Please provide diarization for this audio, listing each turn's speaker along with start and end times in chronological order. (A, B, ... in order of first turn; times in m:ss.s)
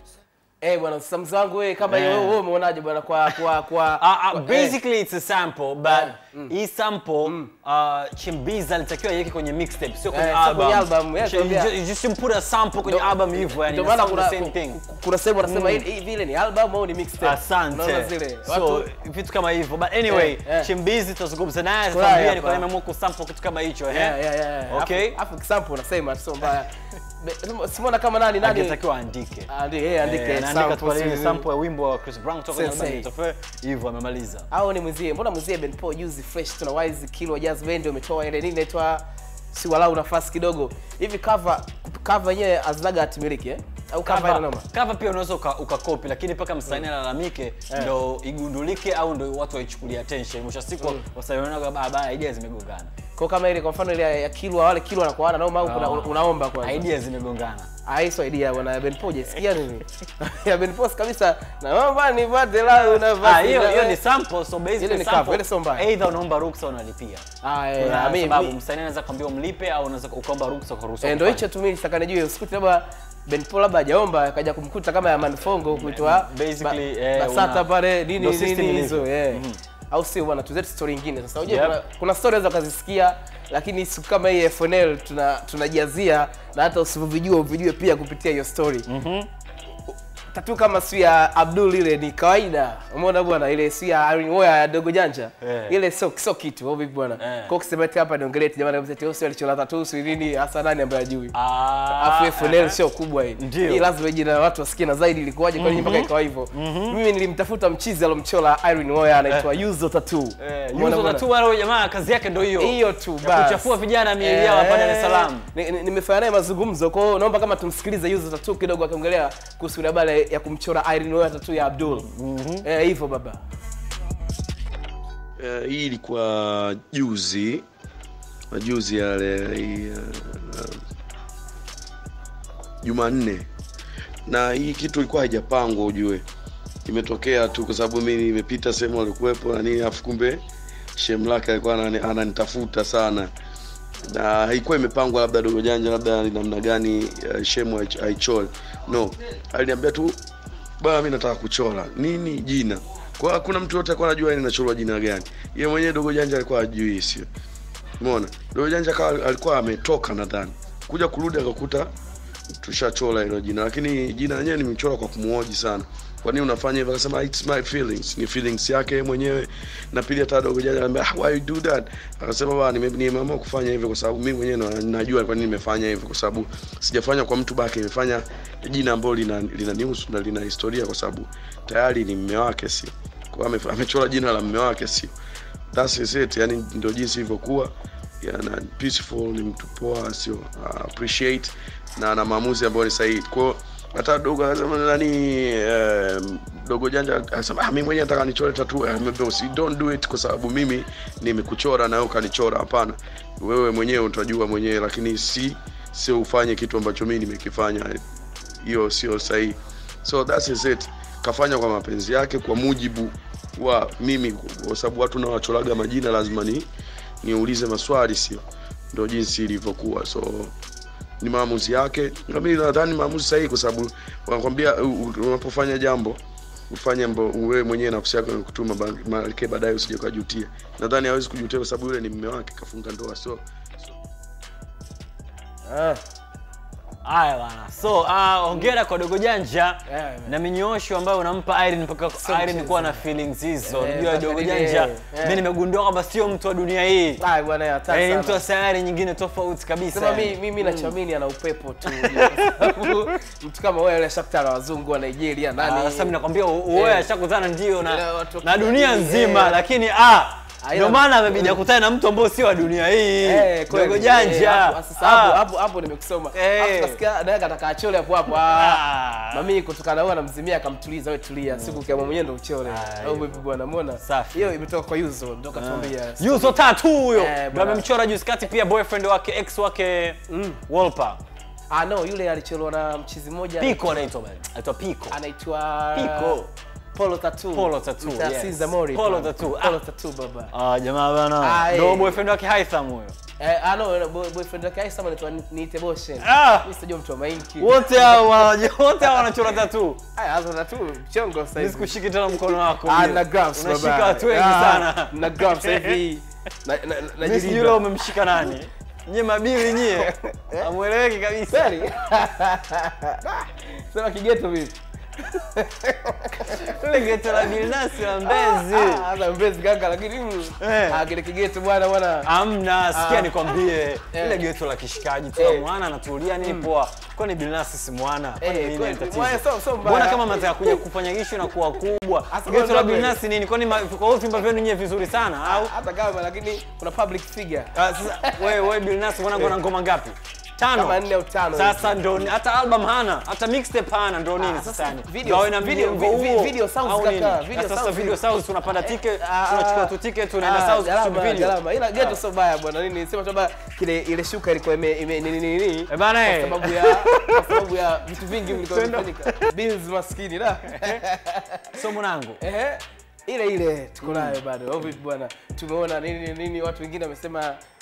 0:00.6-0:04.8 A
0:01.8-0:02.4 B
0:04.0-0:14.8 B
0:05.9-0:06.5 A
0:07.2-0:07.5 A
0:10.1-0:11.7 A
0:12.8-0:18.9 A
0:15.4-0:15.8 B
0:17.2-0:24.2 B
0:20.1-0:20.7 A
0:21.9-0:22.6 A
0:23.9-0:28.8 A
0:24.7-0:25.2 B
0:28.4-0:29.5 B
0:29.5-0:31.4 A
0:30.0-0:34.5 B
0:32.5-0:33.0 A
0:34.5-0:44.7 A
0:44.0-0:52.9 B
0:53.2-0:56.8 A
0:55.6-0:57.7 B
0:57.8-1:04.0 A
1:02.8-1:07.2 B
1:04.8-1:05.9 A
1:07.4-1:08.6 A
1:07.8-1:11.4 B
1:11.0-1:28.9 A
1:15.7-1:17.6 B
1:18.2-1:19.6 B
1:21.4-1:21.8 B
1:28.9-1:29.3 B
1:30.3-1:41.3 A
1:35.4-1:35.7 B
1:37.2-1:37.5 B
1:41.3-1:42.8 B
1:42.0-1:51.2 A
1:43.4-1:43.9 B
1:45.6-1:47.0 B
1:50.4-1:55.5 B
1:52.6-2:02.1 A
2:02.1-2:02.6 B
2:02.6-2:03.4 A
2:05.4-2:07.6 C
2:08.5-2:10.8 C
2:12.8-2:13.4 C
2:14.3-2:16.2 C
2:16.8-2:20.4 C
2:21.0-2:23.3 C
2:24.1-2:30.2 C
2:30.8-2:37.3 C
2:38.0-2:41.9 C
2:42.6-3:05.1 C
3:05.7-3:28.0 C
3:28.6-3:36.7 C
3:37.2-3:38.4 C
3:38.9-3:40.5 C
3:41.2-3:46.2 C
3:46.7-3:53.9 C
3:55.6-3:56.0 A
3:57.0-4:07.2 B
3:59.8-4:00.3 A
4:02.2-4:03.0 A
4:03.6-4:05.4 A
4:07.2-4:08.4 A
4:07.9-4:10.9 B
4:09.9-4:16.1 A
4:12.0-4:12.7 B
4:15.6-4:25.4 B
4:16.7-4:17.0 A
4:17.8-4:19.6 A
4:20.6-4:21.6 A
4:23.2-4:36.6 A
4:26.3-4:27.0 B
4:28.3-4:29.5 B
4:31.5-4:32.1 B
4:32.6-4:33.4 B
4:34.0-4:34.5 B
4:35.5-4:41.2 B
4:37.1-4:37.8 A
4:40.3-4:40.6 A
4:41.7-4:44.1 A
4:43.6-4:45.2 B
4:45.1-4:46.4 A
4:45.9-4:46.5 B
4:46.9-4:50.5 A
4:47.5-4:49.8 B
4:50.5-4:53.2 B
4:51.4-4:52.2 A
4:53.4-4:58.2 A
4:56.2-4:56.7 B
4:57.6-5:00.0 B
5:00.2-5:07.9 A
5:01.6-5:06.0 B
5:07.2-5:11.7 B
5:10.0-5:10.6 A
5:11.5-5:22.3 A
5:16.6-5:19.0 B
5:20.6-5:21.0 B
5:22.2-5:35.7 B
5:22.9-5:23.6 A
5:24.1-5:24.4 A
5:25.3-5:25.7 A
5:26.4-5:26.7 A
5:28.4-5:30.8 A
5:32.3-5:33.2 A
5:35.4-5:38.6 A
5:37.7-5:41.0 B
5:39.3-5:39.6 A
5:40.7-5:42.0 A
5:41.5-5:52.2 B
5:44.4-6:01.6 A
5:55.9-5:57.5 B
5:58.5-5:59.5 B
6:00.7-6:01.0 B
6:01.7-6:02.4 B
6:02.4-6:07.6 A
6:04.0-6:04.4 B